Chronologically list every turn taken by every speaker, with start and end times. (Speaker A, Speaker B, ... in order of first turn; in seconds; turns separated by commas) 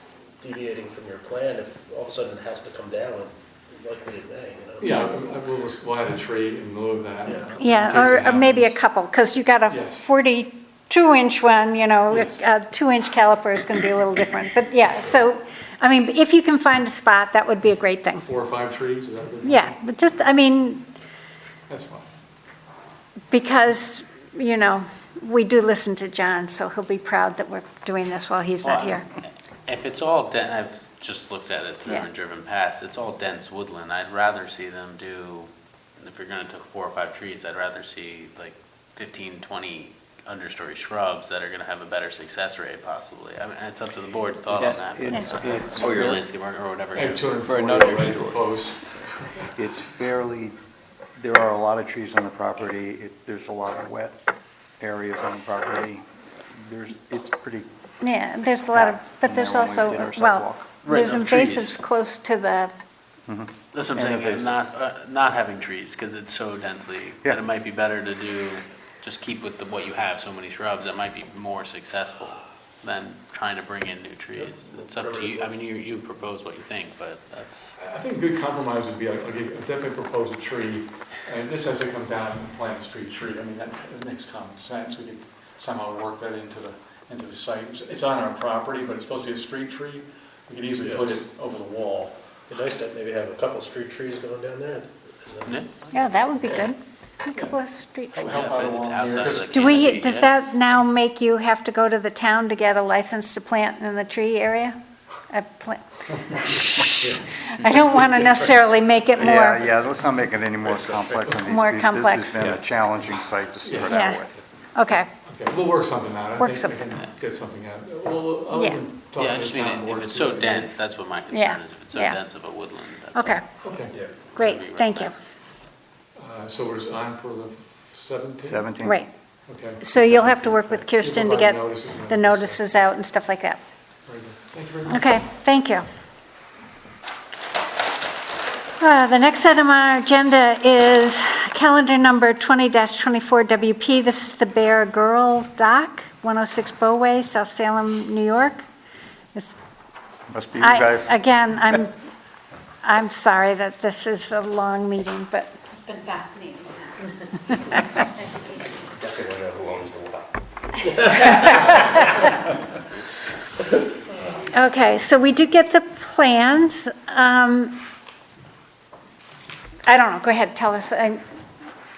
Speaker A: 0.4-4.9, Speaker B: 4.8-8.8, Speaker C: 4.8-5.1, Speaker A: 7.2-7.6, Speaker C: 7.6-18.3, Speaker B: 9.7-10.0, Speaker B: 18.2-19.7, Speaker C: 19.4-20.9, Speaker B: 21.7-22.1, Speaker C: 23.3-29.1, Speaker D: 28.6-47.4, Speaker E: 44.5-46.2, Speaker B: 47.0-49.0, Speaker E: 47.9-48.2, Speaker E: 49.6-50.6, Speaker E: 51.2-54.2, Speaker E: 54.8-57.7, Speaker C: 58.0-62.7, Speaker E: 58.7-61.2, Speaker E: 63.3-64.5, Speaker D: 63.7-77.7, Speaker A: 74.3-75.6, Speaker B: 77.8-92.2, Speaker A: 90.8-91.1, Speaker A: 92.5-95.6, Speaker D: 95.5-95.9, Speaker C: 95.9-98.5, Speaker B: 98.1-99.6, Speaker D: 98.2-100.3, Speaker C: 99.5-104.8, Speaker C: 105.3-109.7, Speaker E: 109.2-114.4, Speaker C: 111.4-112.5, Speaker B: 113.6-113.9, Speaker C: 113.9-114.2, Speaker C: 114.8-115.1, Speaker B: 115.3-120.7, Speaker C: 116.4-116.8, Speaker C: 118.5-118.8, Speaker D: 119.2-123.4, Speaker C: 121.3-122.2, Speaker C: 123.2-123.4, Speaker B: 123.6-124.0, Speaker D: 124.3-125.1, Speaker C: 124.3-125.1, Speaker B: 126.2-128.7, Speaker E: 128.4-129.0, Speaker C: 128.8-129.1, Speaker B: 129.5-129.8, Speaker C: 129.8-133.6, Speaker E: 129.9-130.9, Speaker B: 131.0-132.6, Speaker B: 134.1-135.1, Speaker C: 134.9-135.8, Speaker C: 138.8-148.6, Speaker E: 150.3-151.7, Speaker C: 150.6-152.0, Speaker C: 152.8-155.5, Speaker F: 155.7-158.7, Speaker A: 159.0-160.3, Speaker A: 161.0-162.3, Speaker C: 164.5-167.8, Speaker C: 169.9-171.2